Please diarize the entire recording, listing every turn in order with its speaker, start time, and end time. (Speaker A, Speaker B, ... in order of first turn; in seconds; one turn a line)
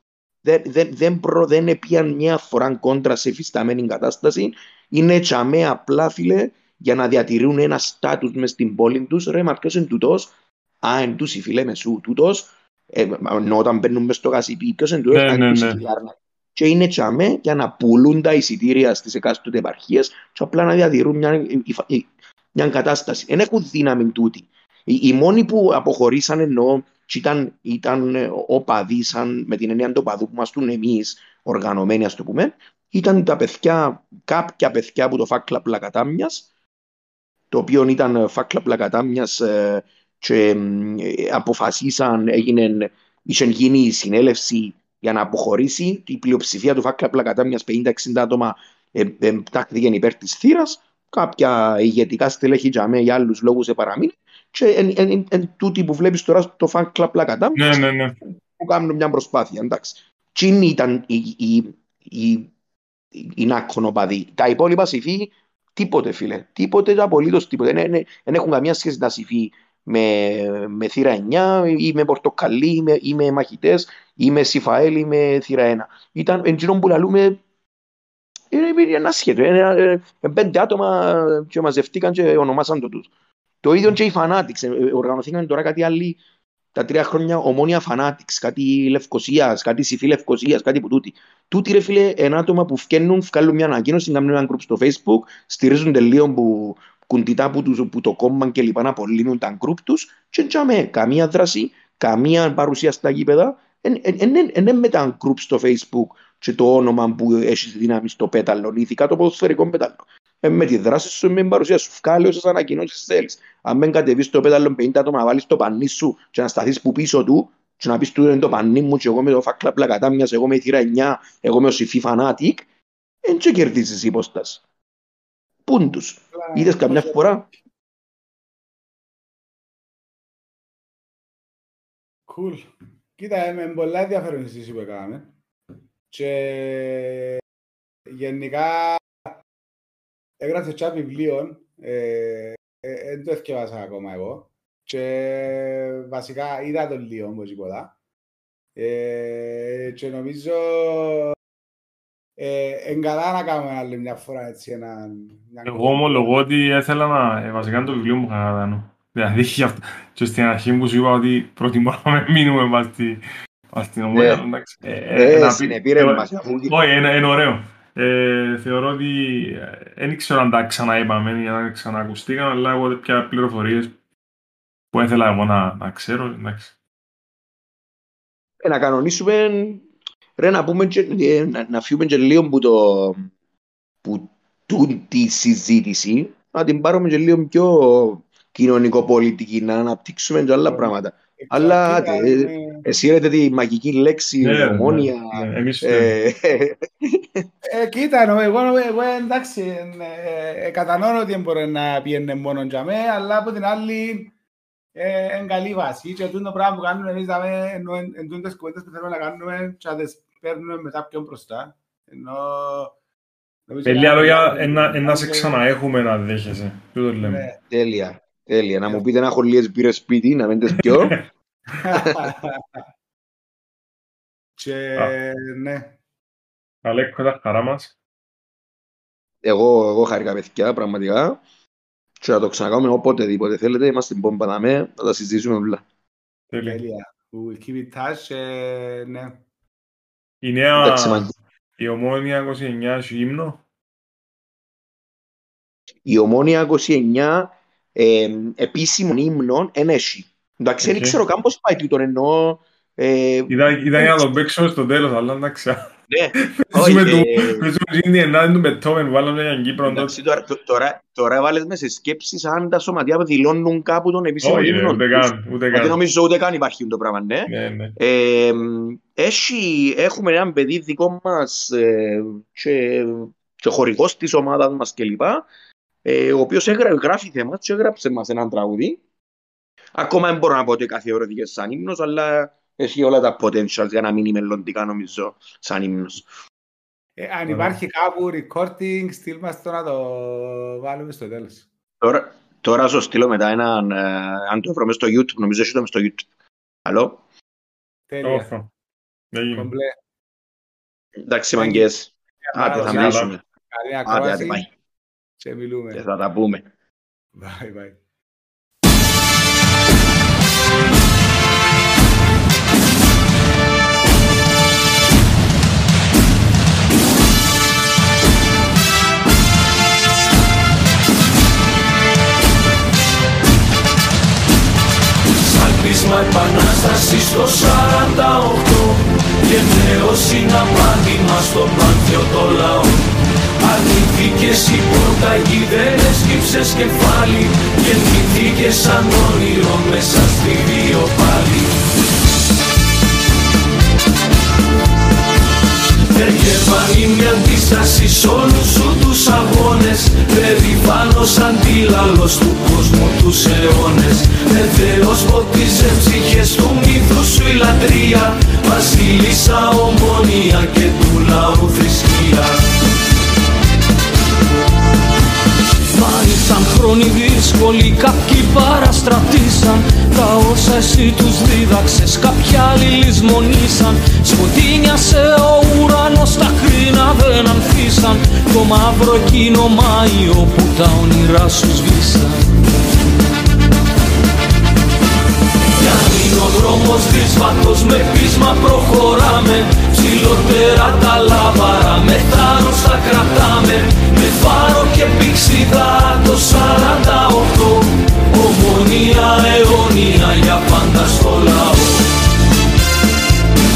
Speaker A: 0.4-36.5
Speaker B: 15.1-15.8
Speaker A: 37.5-62.5
Speaker B: 57.6-58.2
Speaker A: 63.1-77.4
Speaker A: 78.5-83.1
Speaker A: 83.6-86.2
Speaker A: 86.7-122.7
Speaker A: 123.2-124.6
Speaker A: 125.7-127.5
Speaker C: 126.3-127.3
Speaker C: 132.3-135.3
Speaker C: 136.1-137.4
Speaker C: 138.1-139.1
Speaker C: 140.4-147.9
Speaker C: 148.8-151.3
Speaker C: 152.4-156.3
Speaker B: 155.7-173.9
Speaker A: 164.1-164.4
Speaker A: 165.2-166.7
Speaker B: 174.9-176.7
Speaker A: 178.6-179.9
Speaker A: 180.4-183.3
Speaker A: 184.0-197.5
Speaker C: 190.7-192.8
Speaker B: 194.4-196.1
Speaker C: 197.7-204.3
Speaker C: 205.0-212.9
Speaker C: 213.7-215.6
Speaker B: 213.9-217.5
Speaker C: 217.2-217.6
Speaker A: 217.7-221.2
Speaker C: 221.7-222.8
Speaker C: 224.6-225.9
Speaker B: 226.8-227.9
Speaker A: 229.4-231.4
Speaker A: 232.2-235.8
Speaker B: 236.5-236.8
Speaker C: 236.7-239.4
Speaker B: 240.4-243.6
Speaker A: 240.8-241.3
Speaker A: 246.1-254.3
Speaker B: 250.8-251.2
Speaker B: 253.5-255.9
Speaker A: 256.1-257.7
Speaker B: 256.6-260.1
Speaker A: 259.9-275.5
Speaker B: 264.4-266.0
Speaker B: 267.5-268.0
Speaker A: 276.1-279.0
Speaker A: 280.0-286.3
Speaker C: 287.2-291.7
Speaker B: 287.5-287.8
Speaker A: 292.0-296.3
Speaker A: 296.9-297.2
Speaker C: 298.1-298.5
Speaker B: 298.2-298.7
Speaker B: 299.3-299.7
Speaker C: 299.5-300.0
Speaker A: 301.2-303.4
Speaker C: 301.6-301.9
Speaker C: 302.4-304.6
Speaker B: 302.6-303.3
Speaker A: 304.1-304.7
Speaker C: 305.4-306.0
Speaker A: 305.9-306.7
Speaker C: 307.4-308.0
Speaker D: 325.3-341.8
Speaker D: 346.1-362.6
Speaker D: 365.9-382.6
Speaker D: 385.8-402.1